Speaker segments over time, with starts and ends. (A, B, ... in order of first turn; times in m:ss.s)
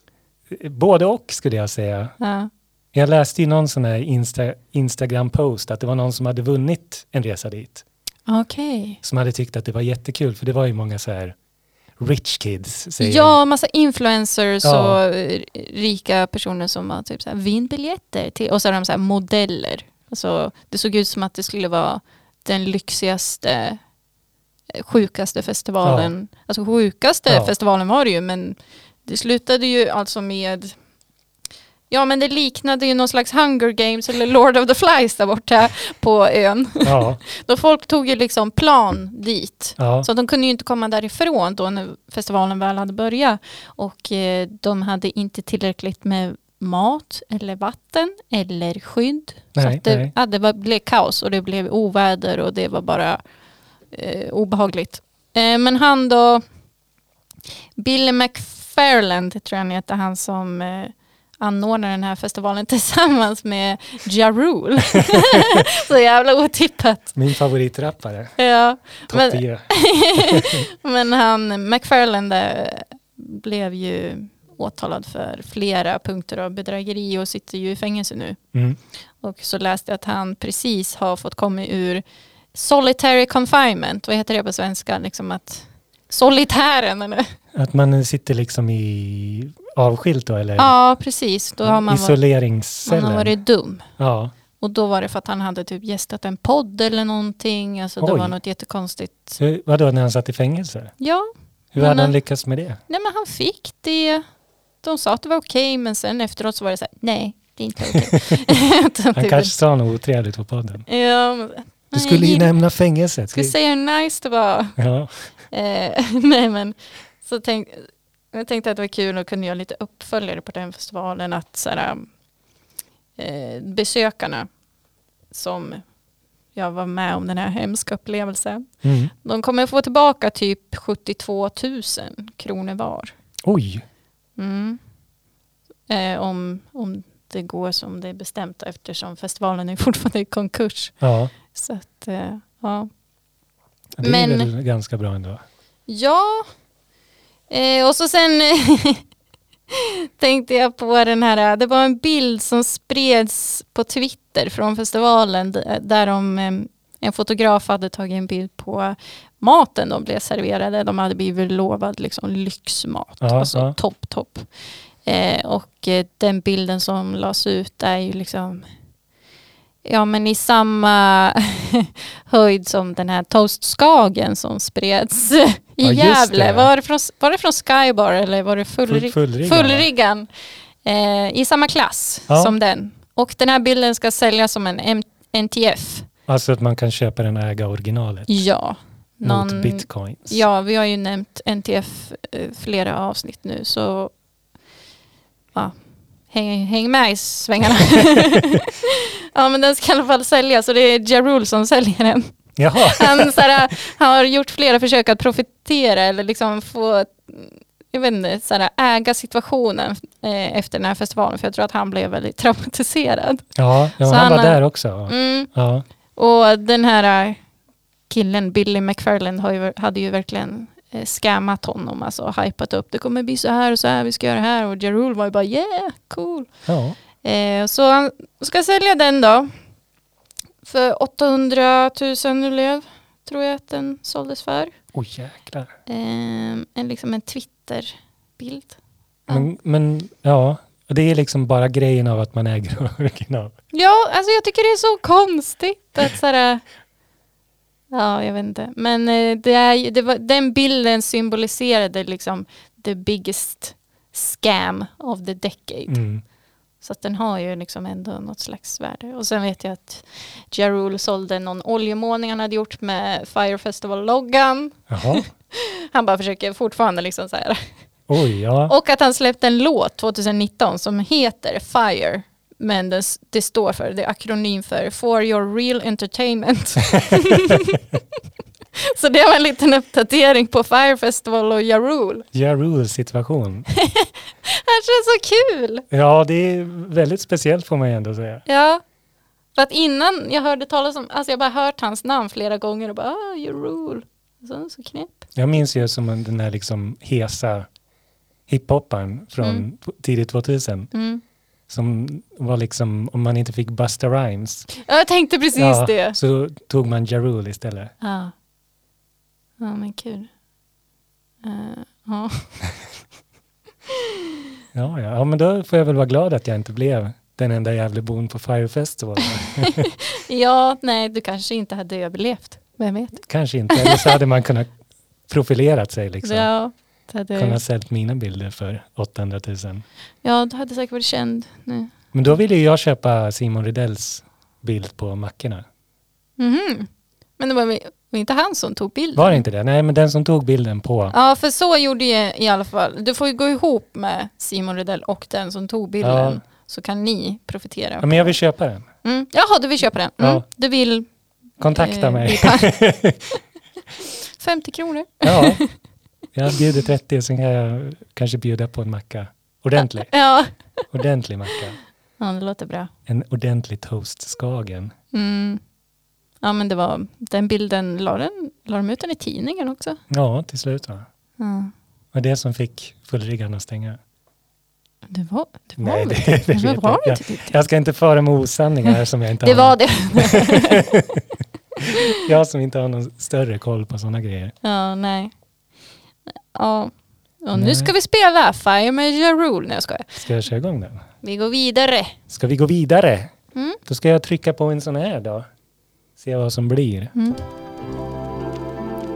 0:00.5-0:02.2 A
0:02.2-0:02.5 B
0:02.9-0:07.8 A
0:08.3-0:09.0 B
0:09.0-0:11.4 A
0:12.0-0:13.4 A
0:13.0-0:23.8 B
0:14.6-0:15.0 A
0:24.7-0:30.8 B
0:25.8-0:26.1 A
0:27.3-0:27.5 A
0:31.9-0:53.2 B
0:36.8-0:37.2 A
0:39.8-0:40.1 A
0:49.5-0:50.1 A
0:53.9-0:56.4 B
0:57.8-1:07.1 B
1:07.1-1:08.4 A
1:08.4-1:18.4 B
1:09.1-1:10.6 A
1:19.2-1:27.3 B
1:27.5-1:30.7 A
1:30.6-1:32.2 B
1:31.6-1:33.3 A
1:32.8-1:33.9 B
1:34.0-1:34.3 A
1:34.6-1:39.4 B
1:38.0-1:38.4 A
1:39.4-1:40.9 A
1:41.0-1:42.2 B
1:41.7-1:42.8 A
1:42.9-1:44.2 B
1:44.8-1:49.5 B
1:49.1-1:50.9 A
1:50.9-1:52.5 B
1:51.9-1:53.5 A
1:53.3-1:54.8 B
1:54.8-1:55.3 A
1:55.5-2:02.1 B
2:03.2-2:04.5 B
2:05.3-2:05.8 B
2:06.5-2:08.7 B
2:08.8-2:09.1 A
2:09.2-2:13.1 B
2:13.4-2:13.8 A
2:14.4-2:14.8 B
2:15.9-2:21.0 B
2:21.0-2:21.3 A
2:21.5-2:22.9 B
2:24.0-2:25.4 A
2:24.0-2:24.5 B
2:25.9-2:26.5 B
2:27.5-2:29.0 B
2:29.7-2:44.5 B
2:43.2-2:43.8 A
2:45.0-2:48.7 B
2:49.8-3:00.3 B
2:55.8-2:56.7 A
2:58.8-2:59.9 A
3:00.8-3:06.1 B
3:02.3-3:02.6 A
3:06.3-3:08.4 A
3:08.3-3:14.1 B
3:09.2-3:10.4 A
3:16.3-3:33.5 B
3:18.1-3:18.4 A
3:22.6-3:23.7 A
3:33.6-3:35.8 A
3:34.0-3:35.5 B
3:36.2-3:37.4 B
3:38.1-3:46.5 B
3:46.6-3:47.0 A
3:47.2-3:49.5 B
3:50.6-3:54.7 B
3:54.9-3:55.7 A
3:55.9-3:59.5 B
3:59.3-4:03.5 A
4:03.7-4:06.6 B
4:07.9-4:16.0 B
4:15.9-4:16.2 A
4:16.8-4:27.7 B
4:24.9-4:25.2 A
4:28.1-4:28.7 A
4:28.7-4:37.8 B
4:37.0-4:37.8 A
4:38.8-4:42.2 B
4:42.3-4:43.7 A
4:43.7-4:45.8 B
4:45.9-4:48.4 A
4:48.4-4:48.8 B
4:49.5-4:55.2 B
4:55.3-4:57.7 A
4:58.5-5:00.9 A
4:59.4-4:59.6 B
5:00.9-5:01.2 B
5:01.7-5:04.7 A
5:04.8-5:06.2 B
5:05.5-5:07.9 A
5:08.0-5:08.3 B
5:09.6-5:10.3 B
5:11.4-5:12.6 B
5:14.7-5:19.9 A
5:19.6-5:24.2 B
5:23.2-5:24.7 A
5:25.3-5:26.5 A
5:26.2-5:27.6 B
5:27.3-5:29.8 A
5:30.2-5:31.9 B
5:32.1-5:35.6 A
5:36.4-5:39.4 B
5:39.2-5:41.1 A
5:41.1-5:48.4 B
5:46.0-5:46.4 A
5:48.0-5:48.8 A
5:49.0-5:51.1 B
5:50.2-5:50.4 A
5:51.6-5:53.4 A
5:51.7-5:52.7 B
5:54.3-5:55.7 B
5:55.2-5:55.6 A
5:56.3-6:00.1 A
6:00.1-6:00.5 B
6:00.9-6:01.8 A
6:02.2-6:02.9 B
6:03.1-6:04.9 A
6:05.1-6:05.6 B
6:06.4-6:10.0 B
6:10.1-6:11.0 A
6:11.4-6:11.7 B
6:12.1-6:14.0 A
6:15.1-6:17.5 B
6:15.8-6:21.2 A
6:19.4-6:20.9 B
6:21.9-6:22.2 B
6:22.1-6:24.5 A
6:24.6-6:25.3 B
6:26.5-6:30.2 B
6:27.5-6:27.9 A
6:30.2-6:31.0 A
6:31.2-6:32.2 B
6:32.3-6:33.3 A
6:33.5-6:33.8 B
6:33.8-6:35.5 A
6:36.2-6:37.1 A
6:37.1-6:37.4 B